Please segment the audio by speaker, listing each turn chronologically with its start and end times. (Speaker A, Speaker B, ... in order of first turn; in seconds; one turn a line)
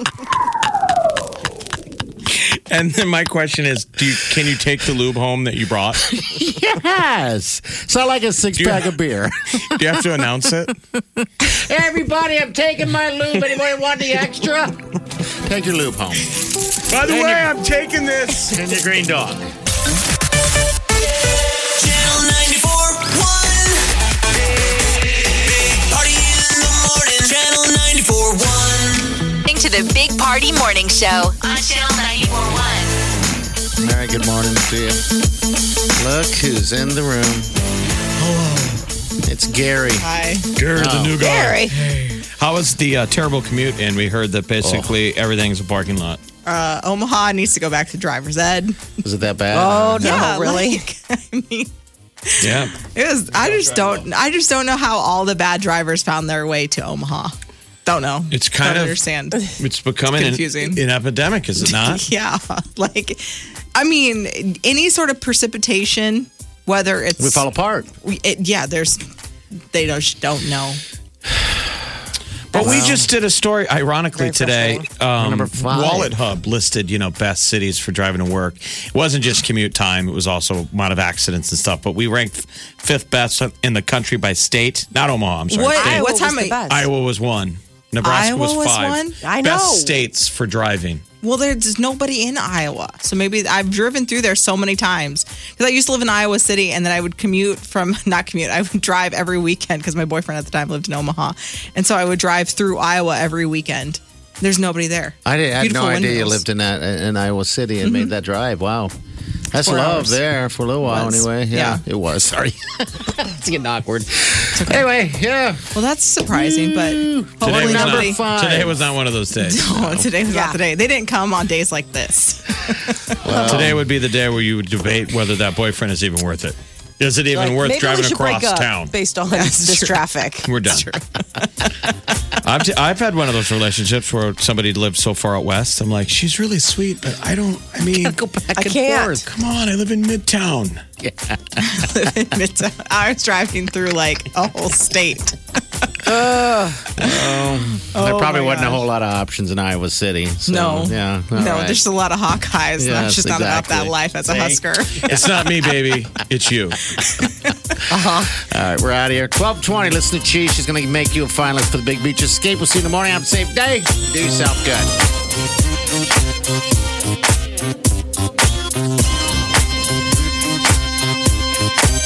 Speaker A: 2.3-6.0
Speaker B: 6.0-10.0
Speaker A: 8.6-8.9
Speaker A: 9.7-10.8
Speaker B: 11.4-16.3
Speaker A: 16.9-18.6
Speaker B: 16.9-17.6
Speaker B: 18.4-19.5
Speaker C: 21.8-23.9
Speaker C: 24.4-29.2
Speaker D: 29.4-32.9
Speaker B: 33.8-35.0
Speaker B: 36.0-37.5
Speaker A: 38.2-38.8
Speaker B: 39.2-40.1
Speaker E: 40.0-40.5
Speaker A: 40.6-46.2
Speaker B: 40.7-41.2
Speaker F: 41.2-41.8
Speaker B: 44.6-45.0
Speaker E: 46.4-48.9
Speaker B: 49.0-50.3
Speaker F: 49.5-50.8
Speaker E: 50.0-51.7
Speaker E: 52.4-57.3
Speaker A: 52.4-52.8
Speaker A: 53.4-53.9
Speaker E: 57.9-60.8
Speaker A: 58.3-62.1
Speaker E: 61.6-63.2
Speaker E: 63.8-67.5
Speaker B: 67.2-67.9
Speaker E: 68.0-69.0
Speaker E: 69.7-70.8
Speaker B: 71.4-71.8
Speaker A: 72.5-86.0
Speaker B: 72.6-73.1
Speaker F: 72.6-72.8
Speaker F: 74.2-74.9
Speaker B: 75.2-76.2
Speaker E: 85.5-86.7
Speaker F: 85.8-86.9
Speaker A: 86.7-91.0
Speaker E: 88.0-89.2
Speaker F: 89.2-89.9
Speaker E: 91.2-106.5
Speaker B: 105.2-109.0
Speaker E: 107.8-108.1
Speaker B: 109.5-115.7
Speaker E: 109.6-110.2
Speaker E: 110.8-111.8
Speaker E: 114.6-114.8
Speaker E: 115.8-118.3
Speaker B: 116.3-118.8
Speaker A: 117.4-119.8
Speaker E: 119.4-123.0
Speaker B: 119.8-120.0
Speaker F: 120.3-120.6
Speaker B: 123.2-123.9
Speaker A: 123.3-128.9
Speaker F: 127.3-130.8
Speaker E: 129.3-130.0
Speaker A: 130.4-130.9
Speaker A: 132.4-138.2
Speaker B: 137.9-139.3
Speaker F: 138.6-139.2
Speaker A: 139.3-140.8
Speaker B: 141.0-142.1
Speaker E: 141.6-145.4
Speaker B: 146.0-151.8
Speaker E: 147.0-147.3
Speaker E: 147.9-148.9
Speaker E: 150.5-155.1
Speaker B: 152.8-155.5
Speaker A: 155.0-156.8
Speaker F: 157.9-158.3
Speaker B: 158.0-164.9